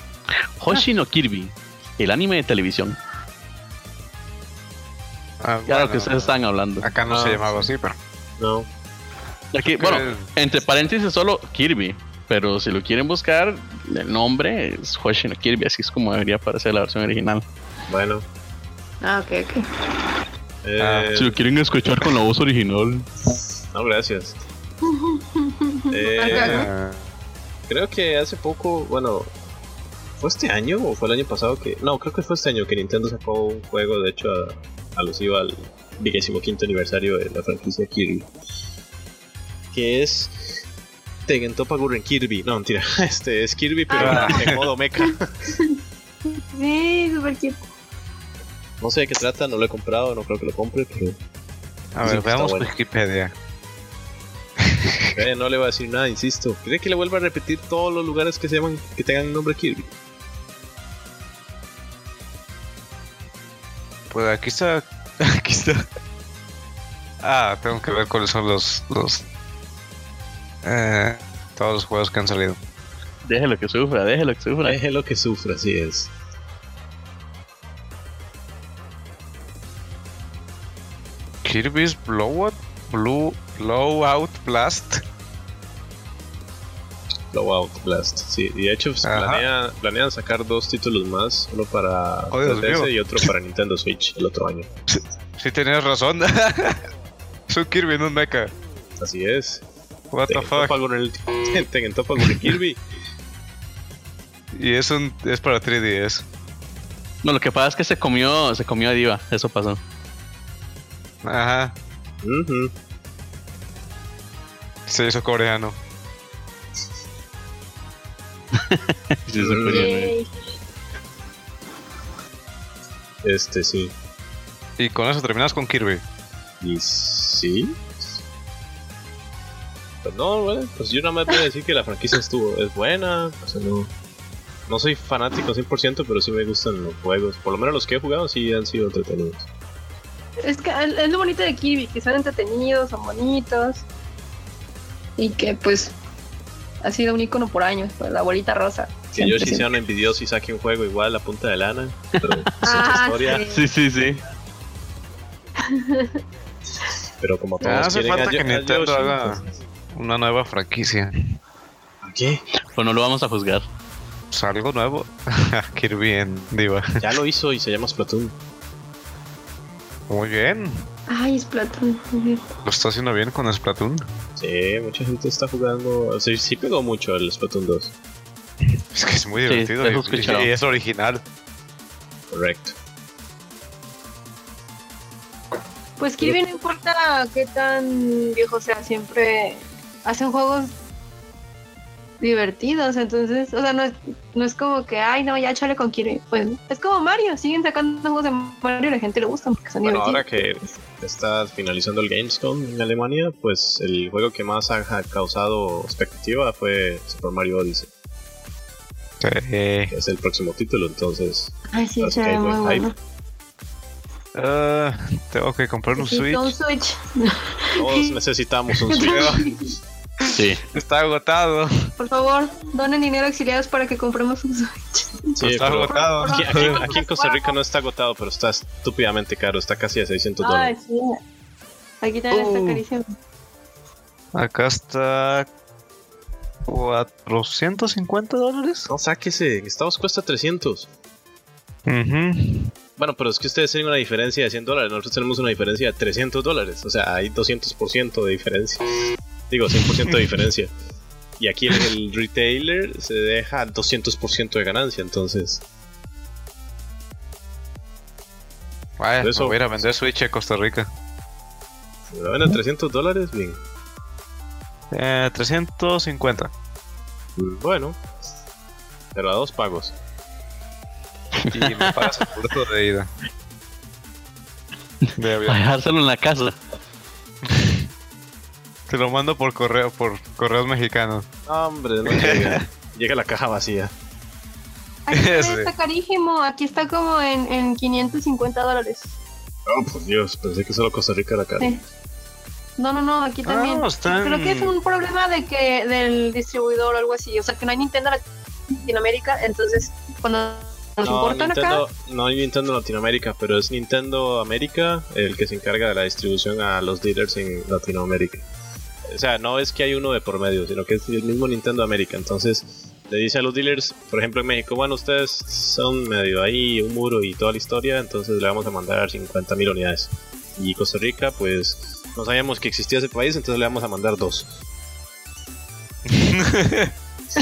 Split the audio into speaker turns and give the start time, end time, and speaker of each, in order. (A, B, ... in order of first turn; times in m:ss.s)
0:00.6-0:03.0 A
0:05.4-0:08.0 B
0:05.7-0:06.9 A
0:07.1-0:07.7 C
0:08.4-0:08.7 C
0:09.5-0:17.4 A
0:09.8-0:10.3 B
0:17.9-0:18.2 C
0:19.0-0:19.7 D
0:20.6-0:21.4 C
0:20.8-0:21.1 B
0:21.2-0:23.1 A
0:23.7-0:24.4 C
0:24.8-0:26.7 D
0:25.9-0:26.7 C
0:26.3-0:27.0 B
0:27.7-0:29.3 C
0:30.2-0:38.3 C
0:39.7-0:40.6 C
0:41.3-0:45.3 C
0:43.9-0:44.4 D
0:44.0-0:44.7 B
0:46.3-0:47.6 D
0:48.8-0:51.2 C
0:52.0-0:53.3 B
0:52.0-0:52.7 C
0:54.6-0:55.2 B
0:55.1-0:59.9 C
1:04.1-1:05.9 B
1:07.2-1:09.2 B
1:10.6-1:12.6 B
1:13.3-1:14.8 A
1:14.7-1:16.1 C
1:21.4-1:25.0 B
1:27.3-1:34.7 C
1:29.0-1:29.4 B
1:32.3-1:33.2 B
1:34.9-1:36.9 B
1:37.5-1:38.5 B
1:39.0-1:39.6 C
1:40.1-1:40.8 B
1:40.3-1:42.8 C
1:42.2-1:42.5 B
1:44.5-1:46.2 B
1:47.2-1:49.8 A
1:51.2-1:51.7 B
1:52.2-1:52.7 C
1:54.9-1:55.8 B
1:58.6-2:00.1 A
1:59.4-1:59.9 C
1:59.7-2:00.3 D
2:03.2-2:03.9 C
2:04.8-2:06.0 B
2:06.6-2:07.8 C
2:10.0-2:13.9 C
2:14.7-2:19.5 C
2:20.4-2:23.8 D
2:25.2-2:26.0 D
2:26.8-2:29.0 D
2:29.1-2:33.5 C
2:29.2-2:29.7 A
2:32.6-2:33.6 D
2:33.4-2:34.2 A
2:35.6-2:36.2 D
2:37.2-2:39.5 C
2:37.6-2:41.3 B
2:42.0-2:42.4 C
2:42.7-2:43.6 A
2:44.3-2:47.2 B
2:47.0-2:48.3 C
2:50.1-2:50.9 B
2:51.1-2:52.4 D
2:52.6-2:54.0 B
2:54.4-2:57.9 C
2:58.9-3:01.2 B
2:59.5-3:00.5 A
3:02.3-3:02.7 C
3:06.0-3:10.7 D
3:12.2-3:20.5 D
3:19.8-3:27.9 C
3:29.2-3:29.9 B
3:29.9-3:32.9 C
3:31.7-3:32.9 D
3:34.4-3:36.6 B
3:36.0-3:38.2 D
3:37.8-3:39.5 C
3:38.9-3:39.6 D
3:39.0-3:39.4 B
3:40.2-3:41.9 B
3:40.4-3:40.6 A
3:42.0-3:47.6 D
3:45.4-3:50.8 C
3:45.4-3:46.9 B
3:50.4-3:51.2 D
3:52.0-3:53.1 D
3:52.3-3:52.7 C
3:54.3-3:55.5 B
3:56.7-3:58.9 B
3:58.9-4:00.9 C
4:01.9-4:02.7 B
4:03.0-4:08.8 C
4:09.5-4:10.7 C
4:11.4-4:15.6 C
4:19.0-4:20.9 B
4:19.2-4:19.8 C
4:22.1-4:23.6 C
4:24.9-4:26.5 B
4:27.4-4:28.0 C
4:29.2-4:29.9 C
4:31.4-4:32.2 A
4:31.5-4:33.1 B
4:35.1-4:36.6 A
4:35.2-4:35.6 B
4:37.4-4:37.8 B
4:38.9-4:41.3 B
4:41.5-4:43.9 C
4:42.0-4:42.6 B
4:45.1-4:49.1 D
4:45.1-4:45.7 B
4:49.7-4:51.8 C
4:52.8-5:01.8 D
4:53.5-4:54.8 B
5:01.0-5:08.5 C
5:09.1-5:24.5 C
5:26.1-5:26.9 B